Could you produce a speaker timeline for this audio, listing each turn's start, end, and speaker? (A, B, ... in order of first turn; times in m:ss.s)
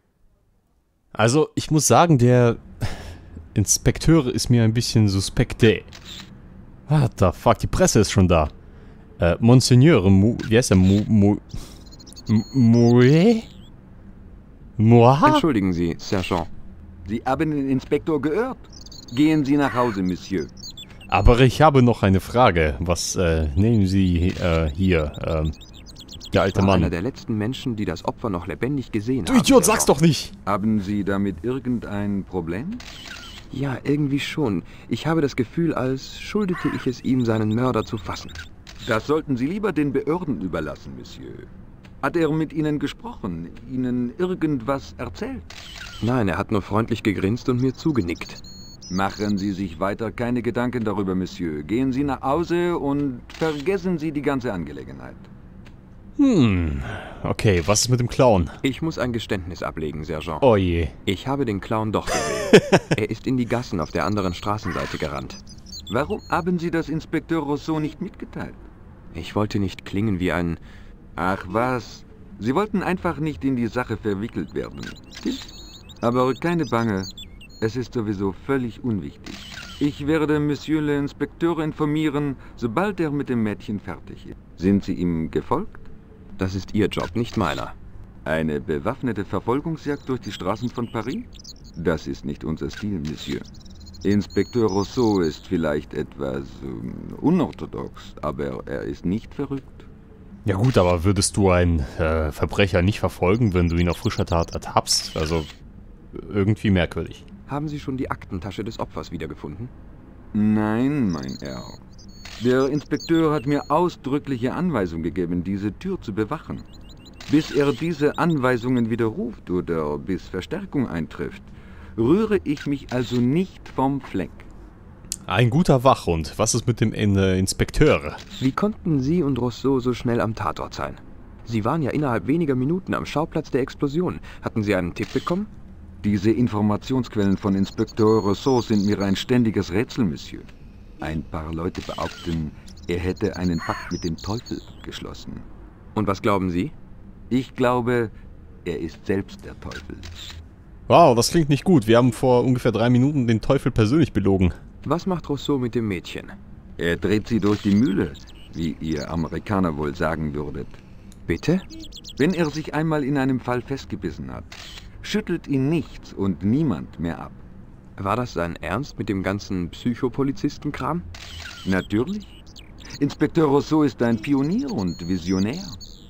0:01.1-0:05.9 A
0:06.9-0:08.5 A
0:09.2-0:11.4 A
0:12.3-0:13.5 A
0:14.8-0:15.4 A
0:15.2-0:16.5 B
0:17.0-0:20.5 C
0:21.1-0:25.5 A
0:26.3-0:26.9 A
0:26.3-0:29.9 B
0:29.2-0:30.3 A
0:30.4-0:32.8 C
0:33.5-0:38.4 B
0:38.8-0:41.5 C
0:42.0-0:45.5 C
0:46.0-0:48.4 B
0:48.9-0:55.3 C
0:56.2-0:58.6 A
0:58.6-1:00.4 B
1:00.4-1:01.0 A
1:01.0-1:05.4 B
1:02.5-1:02.8 A
1:05.9-1:08.6 C
1:09.1-1:10.6 B
1:11.2-1:15.4 C
1:16.0-1:25.9 C
1:26.4-1:27.8 B
1:28.2-1:33.4 C
1:34.0-1:39.9 C
1:40.4-1:45.5 A
1:46.1-1:47.2 A
1:47.5-1:49.7 B
1:50.3-1:51.8 C
1:52.4-1:56.6 C
1:57.3-2:04.5 C
2:05.3-2:08.2 A
2:08.4-2:15.5 B
2:16.0-2:20.5 C
2:21.0-2:25.4 C
2:25.9-2:26.7 B
2:27.3-2:28.1 C
2:28.6-2:30.1 C
2:30.9-2:34.6 A
2:34.8-2:36.3 B
2:36.8-2:40.8 C
2:41.3-2:41.6 B
2:42.2-2:47.4 C
2:48.0-2:51.0 B
2:51.6-2:52.4 C
2:53.0-2:55.8 C